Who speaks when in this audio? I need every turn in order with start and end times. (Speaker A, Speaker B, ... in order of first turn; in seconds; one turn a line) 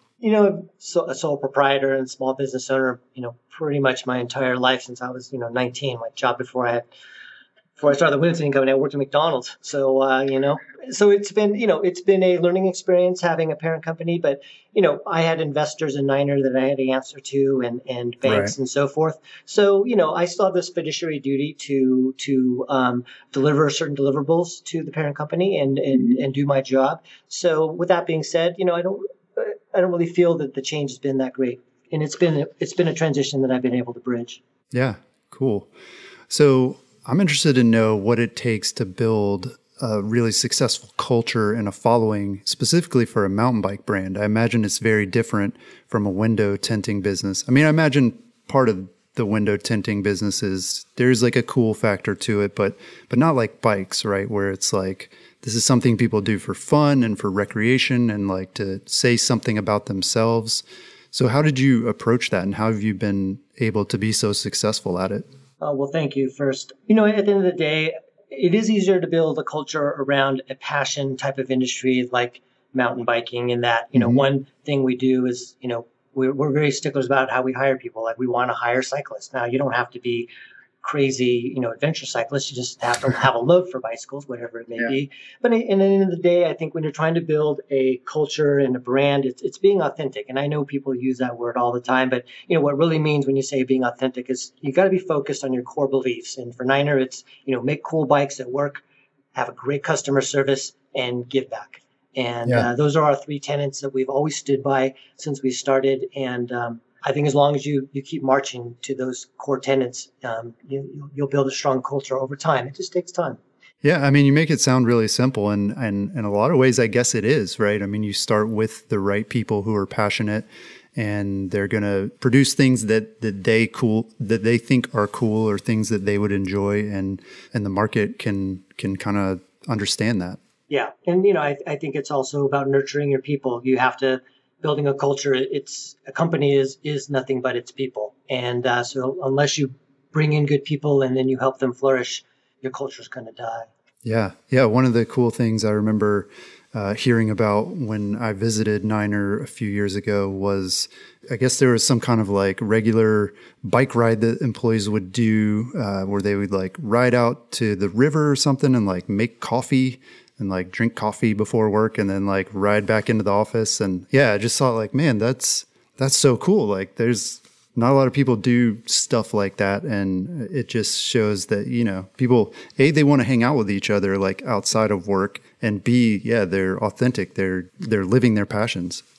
Speaker A: 0.2-6.9
Speaker A: 7.8-34.4
Speaker B: 18.2-18.5
Speaker B: 34.7-35.7
Speaker B: 36.3-65.3
Speaker A: 65.6-80.3
Speaker B: 74.0-74.2
Speaker A: 80.8-98.8
Speaker A: 99.3-113.4
Speaker B: 113.8-130.4
Speaker A: 130.7-143.7
Speaker B: 144.1-179.0